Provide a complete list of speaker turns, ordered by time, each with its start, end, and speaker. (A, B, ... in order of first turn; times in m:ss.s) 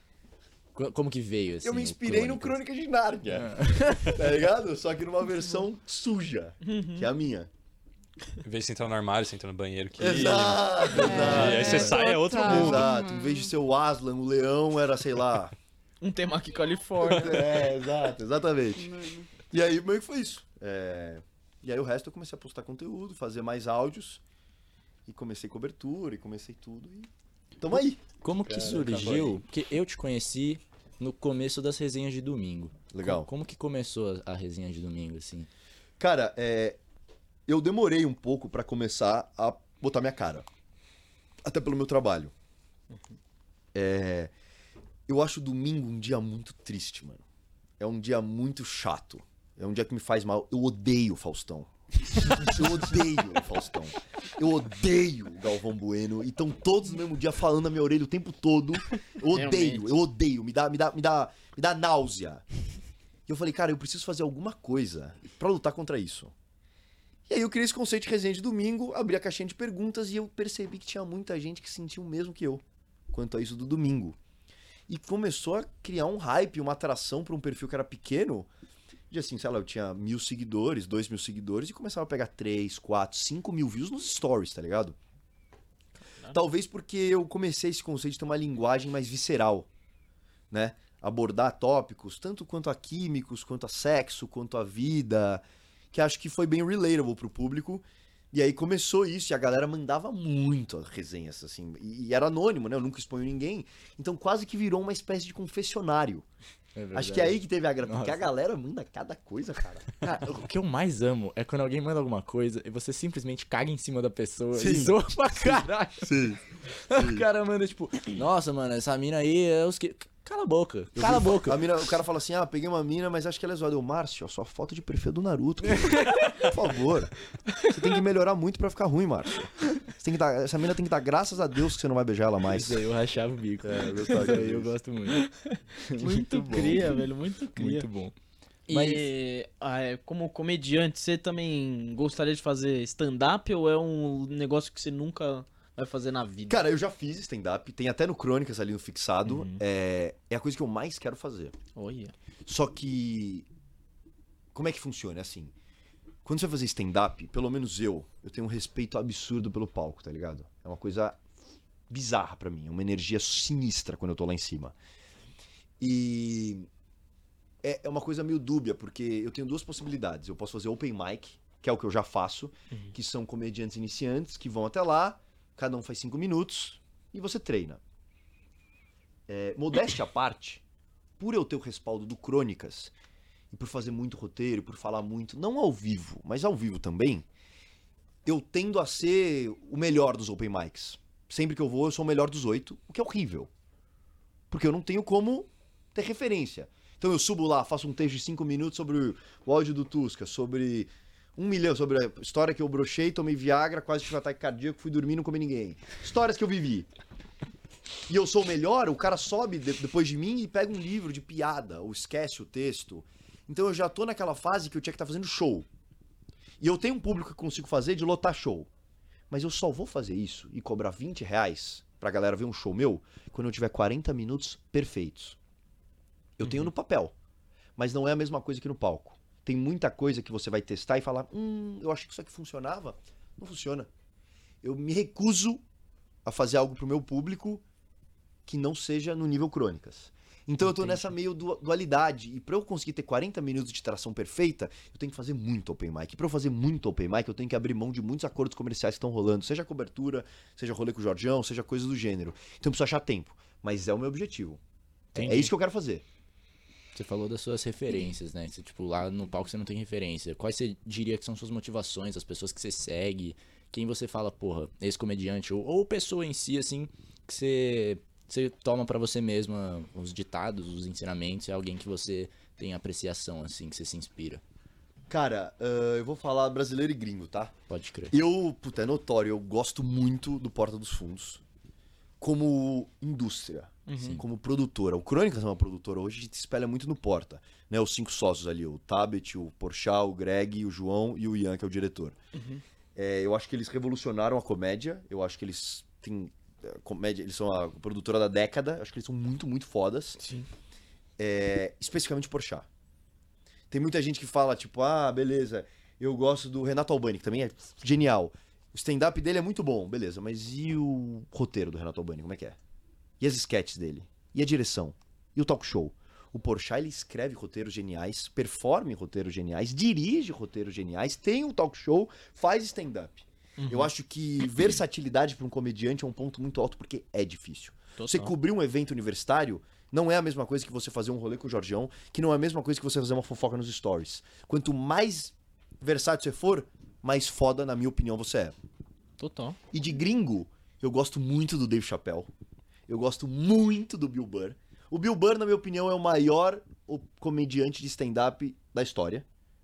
0:00.7-0:02.6 A
0:01.6-0:07.5 B
0:03.3-0:04.2 A
0:06.6-0:07.1 C
0:08.4-0:12.9 D
0:10.0-0:15.5 B
0:11.0-0:13.5 E
0:16.0-0:17.7 C
0:17.0-0:18.9 B
0:18.8-0:19.3 E
0:19.5-0:24.2 B
0:25.0-0:27.1 B
0:27.6-0:29.4 B
0:28.2-0:35.5 A
0:32.9-0:33.3 B
0:36.0-0:36.8 B
0:37.5-0:40.5 B
0:41.4-0:42.3 B
0:43.7-0:44.3 B
0:45.1-0:47.2 B
0:47.8-1:02.4 B
0:59.3-0:59.9 C
1:03.3-1:06.3 B
1:07.3-1:14.2 B
1:14.9-1:18.5 B
1:19.1-1:25.0 B
1:26.3-1:29.7 B
1:30.5-1:46.2 B
1:46.8-1:48.3 A
1:46.9-1:50.2 B
1:50.0-1:56.2 A
1:54.5-1:57.2 B
1:56.8-2:01.7 A
2:01.0-2:07.1 B
2:05.7-2:06.3 A
2:07.7-2:12.8 B
2:12.5-2:15.2 A
2:13.6-2:14.7 B
2:15.1-2:17.9 C
2:15.9-2:17.0 A
2:17.5-2:18.1 A
2:18.7-2:26.6 C
2:18.7-2:19.1 A
2:26.5-2:31.5 B
2:29.2-2:29.6 C
2:31.7-2:32.1 C
2:32.4-2:33.5 B
2:34.5-2:35.5 B
2:36.2-2:41.2 B
2:41.9-2:44.7 B
2:45.8-2:46.7 B
2:47.6-2:57.8 B
2:59.3-3:00.6 B
3:01.2-3:02.9 B
3:03.5-3:07.2 B
3:08.2-3:13.5 B
3:14.5-3:26.9 B
3:28.1-3:35.7 B
3:36.6-3:38.7 B
3:39.3-3:45.4 B
3:46.4-3:47.1 B
3:47.8-3:53.9 B
3:54.6-3:55.6 B
3:56.2-3:57.6 B
3:58.4-4:14.6 B
4:15.1-4:15.5 A
4:15.1-4:16.0 B
4:16.9-4:34.4 A
4:35.1-4:37.5 B
4:37.7-4:38.1 A
4:38.1-4:41.4 B
4:42.2-4:52.2 B
4:43.9-4:44.2 C
4:44.0-4:44.2 A
4:52.3-4:52.6 C
4:52.9-5:00.2 B
5:00.2-5:00.5 C
5:01.2-5:02.7 B
5:03.7-5:12.6 B
5:13.2-5:38.5 B
5:23.6-5:23.9 C
5:28.0-5:28.3 C
5:39.2-5:39.6 C
5:39.7-5:42.3 B
5:42.9-5:49.2 B